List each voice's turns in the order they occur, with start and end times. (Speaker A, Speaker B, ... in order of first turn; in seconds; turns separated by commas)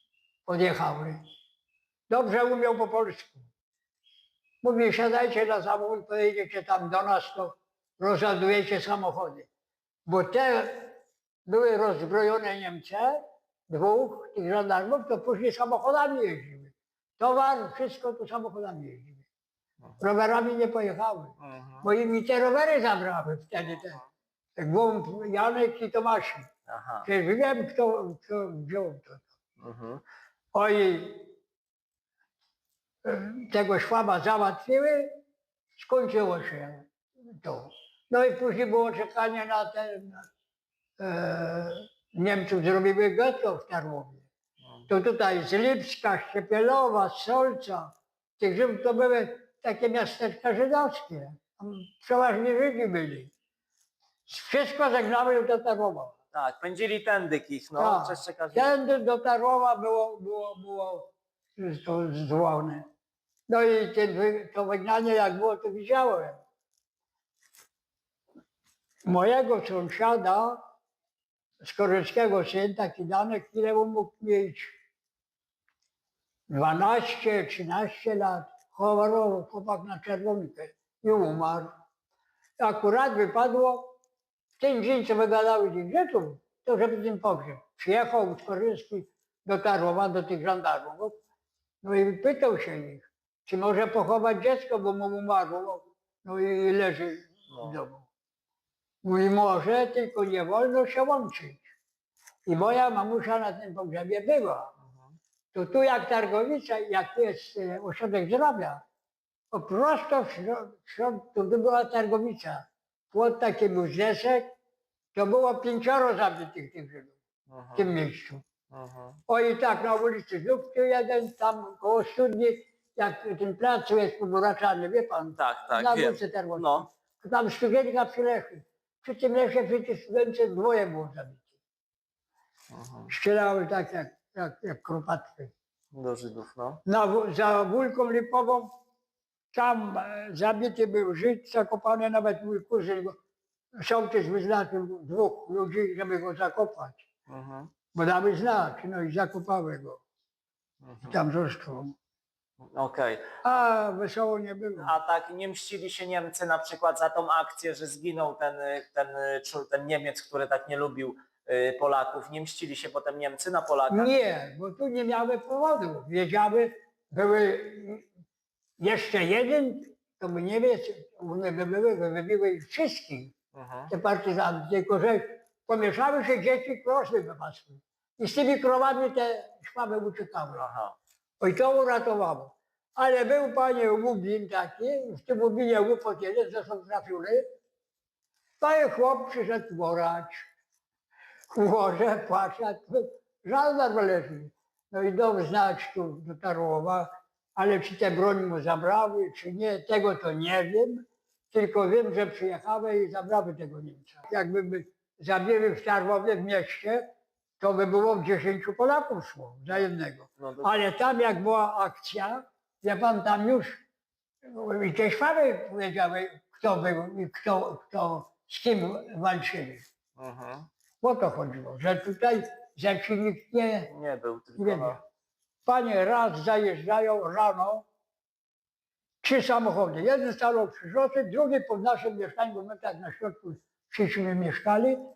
Speaker A: 0.5-1.2, Speaker A: 2.1-3.5, Speaker A: 4.6-9.5, Speaker A: 10.1-19.2, Speaker A: 20.0-24.0, Speaker B: 21.4-21.9, Speaker B: 23.7-24.0, Speaker A: 24.6-26.4, Speaker B: 26.7-27.1, Speaker A: 27.0-29.3, Speaker B: 29.6-30.0, Speaker A: 30.5-31.3, Speaker A: 33.0-35.1, Speaker A: 35.8-40.3, Speaker A: 41.0-44.2, Speaker A: 44.9-53.3, Speaker A: 54.3-56.1, Speaker B: 56.3-58.7, Speaker A: 57.8-62.9, Speaker A: 63.5-66.4, Speaker A: 69.0-70.6, Speaker A: 71.6-74.7, Speaker A: 76.5-81.7, Speaker A: 82.6-83.9, Speaker A: 84.6-91.1, Speaker A: 91.8-98.0, Speaker B: 97.5-97.8, Speaker A: 99.0-101.7, Speaker A: 102.5-104.7, Speaker A: 105.5-108.8, Speaker A: 109.5-114.5, Speaker A: 115.1-117.1, Speaker B: 117.5-117.8, Speaker A: 117.7-118.4, Speaker B: 118.7-119.2, Speaker A: 119.3-131.5, Speaker B: 125.4-126.9, Speaker B: 132.7-133.1, Speaker A: 133.1-135.5, Speaker B: 135.9-136.8, Speaker A: 136.8-138.7, Speaker A: 139.5-143.2, Speaker A: 143.8-147.0, Speaker B: 147.3-147.7, Speaker A: 147.9-150.0, Speaker B: 150.8-151.2, Speaker A: 151.0-151.9, Speaker B: 152.7-153.6, Speaker A: 153.4-154.9, Speaker B: 154.8-164.1, Speaker A: 163.9-168.1, Speaker A: 168.8-173.3, Speaker B: 173.5-173.9, Speaker A: 173.9-180.7, Speaker B: 180.6-180.9, Speaker A: 181.4-187.4, Speaker A: 188.6-190.4, Speaker A: 191.5-207.0, Speaker A: 207.6-213.8, Speaker B: 210.4-210.8, Speaker A: 214.4-219.8, Speaker B: 220.2-220.7, Speaker A: 221.0-223.9, Speaker B: 223.9-225.0, Speaker A: 224.6-225.0, Speaker A: 225.7-227.8, Speaker A: 229.2-235.0